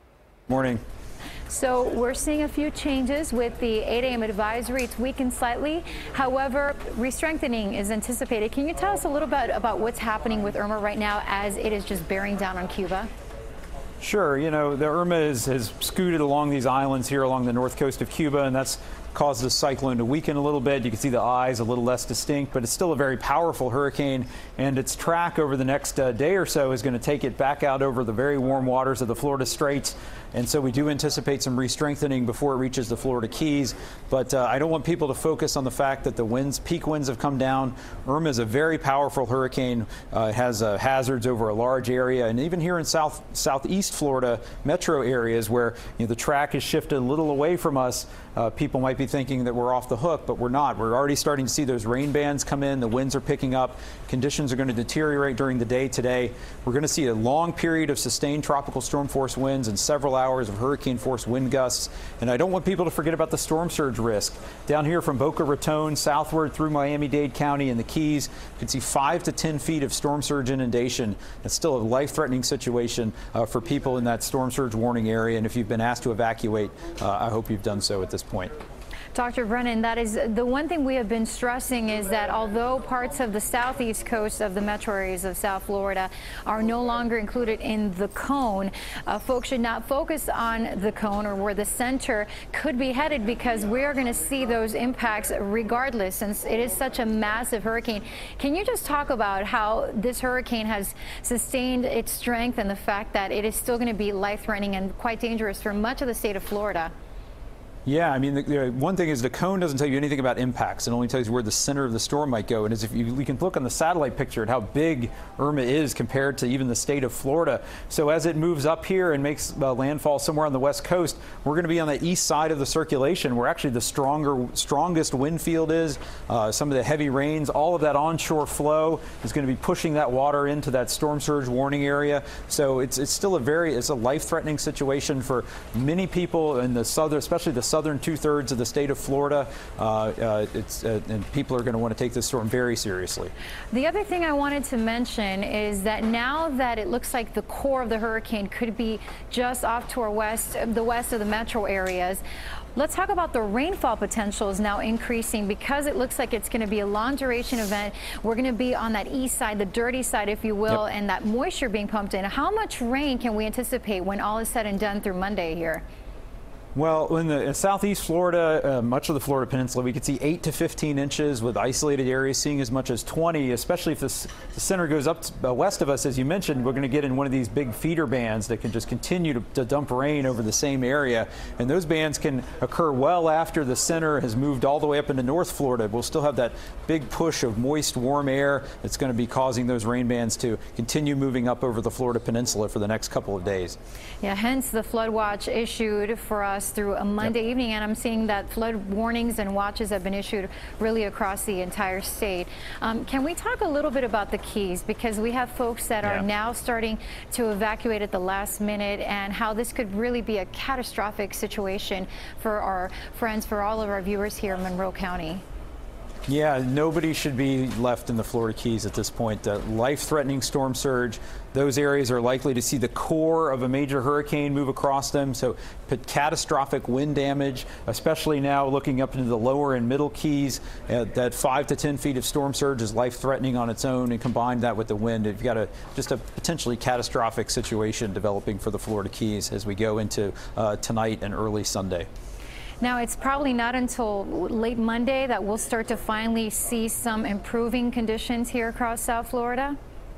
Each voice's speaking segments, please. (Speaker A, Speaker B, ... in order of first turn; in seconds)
Speaker A: 0.5-0.8, 14.0-78.5, 107.9-143.3, 166.8-193.8, 216.3-242.1
Speaker B: 1.5-13.1, 79.2-106.9, 143.7-152.2, 152.8-165.8, 194.2-215.4, 242.8-249.8